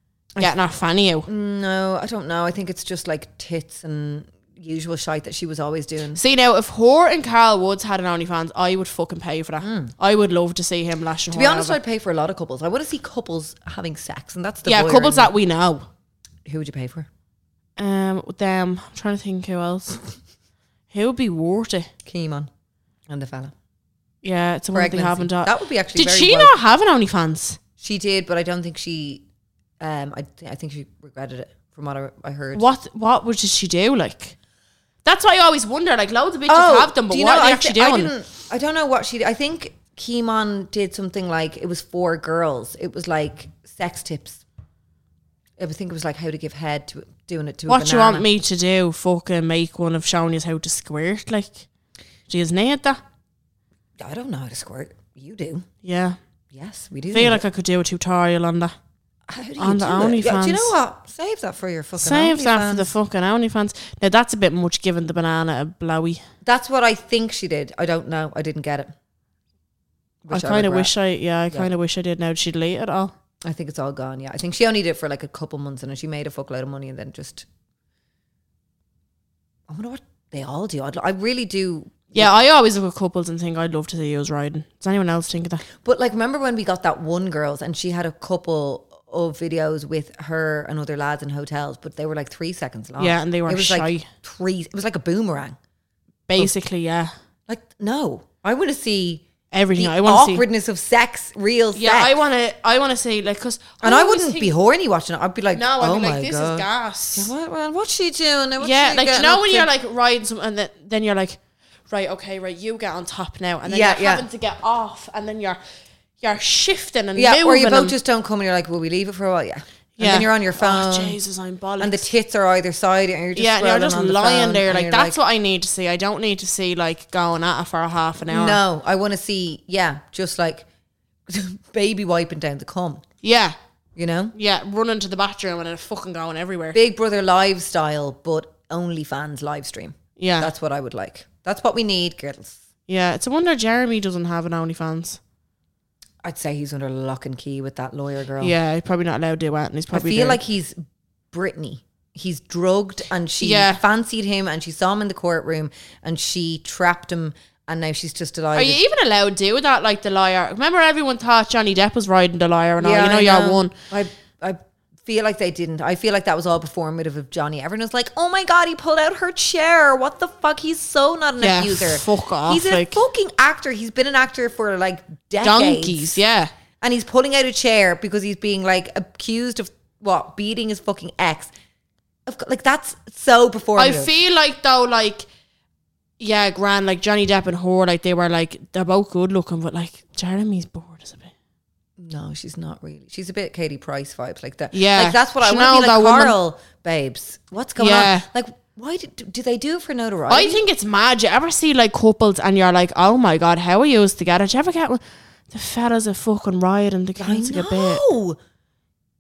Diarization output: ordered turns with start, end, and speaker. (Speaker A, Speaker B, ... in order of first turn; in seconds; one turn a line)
Speaker A: 0.4-1.3
Speaker B: 1.3-6.2
Speaker A: 6.2-11.8
Speaker B: 9.6-9.9
Speaker B: 11.3-15.3
Speaker A: 14.7-15.9
Speaker B: 16.5-17.1
Speaker A: 17.8-20.0
Speaker A: 20.9-21.9
Speaker B: 22.1-22.5
Speaker B: 23.1-23.5
Speaker A: 24.2-27.6
Speaker B: 24.7-26.6
Speaker B: 27.8-29.2
Speaker B: 29.8-32.7
Speaker A: 32.5-34.4
Speaker A: 35.0-38.1
Speaker B: 36.5-44.4
Speaker B: 45.6-48.3
Speaker A: 47.7-51.7
Speaker A: 52.3-53.0
Speaker B: 54.0-55.7
Speaker A: 55.8-56.2
Speaker B: 56.5-57.4
Speaker A: 57.1-58.7
Speaker B: 59.3-62.9
Speaker A: 59.6-60.7
Speaker A: 62.0-66.2
Speaker B: 66.4-68.9
Speaker B: 70.2-70.9
Speaker A: 70.3-73.1
Speaker B: 73.4-77.5
Speaker B: 79.7-82.3
Speaker A: 82.1-85.6
Speaker B: 85.8-95.6
Speaker A: 93.0-94.1
Speaker A: 96.3-97.1
Speaker B: 97.5-102.2
Speaker A: 99.5-100.4
Speaker A: 101.8-104.5
Speaker B: 103.8-109.7
Speaker A: 105.5-107.3
Speaker A: 108.6-111.4
Speaker A: 111.9-115.6
Speaker B: 113.7-114.3
Speaker A: 116.2-118.0
Speaker B: 117.2-121.2
Speaker A: 120.0-122.0
Speaker B: 121.8-125.2
Speaker A: 123.4-128.6
Speaker B: 128.3-130.7
Speaker B: 131.3-133.0
Speaker A: 133.2-133.6
Speaker B: 134.0-134.3
Speaker A: 134.3-136.8
Speaker B: 136.7-142.6
Speaker A: 140.2-140.5
Speaker A: 142.9-145.2
Speaker B: 146.2-148.5
Speaker A: 148.4-150.4
Speaker B: 149.9-158.8
Speaker A: 153.4-153.8
Speaker A: 158.6-163.7
Speaker B: 162.8-176.2
Speaker A: 171.4-173.0
Speaker A: 175.4-176.5
Speaker B: 176.8-181.5
Speaker B: 182.3-184.1
Speaker A: 183.8-185.3
Speaker A: 186.2-191.3
Speaker B: 192.0-200.6
Speaker A: 194.7-196.3
Speaker A: 197.8-198.2
Speaker A: 200.3-208.0
Speaker B: 207.2-208.4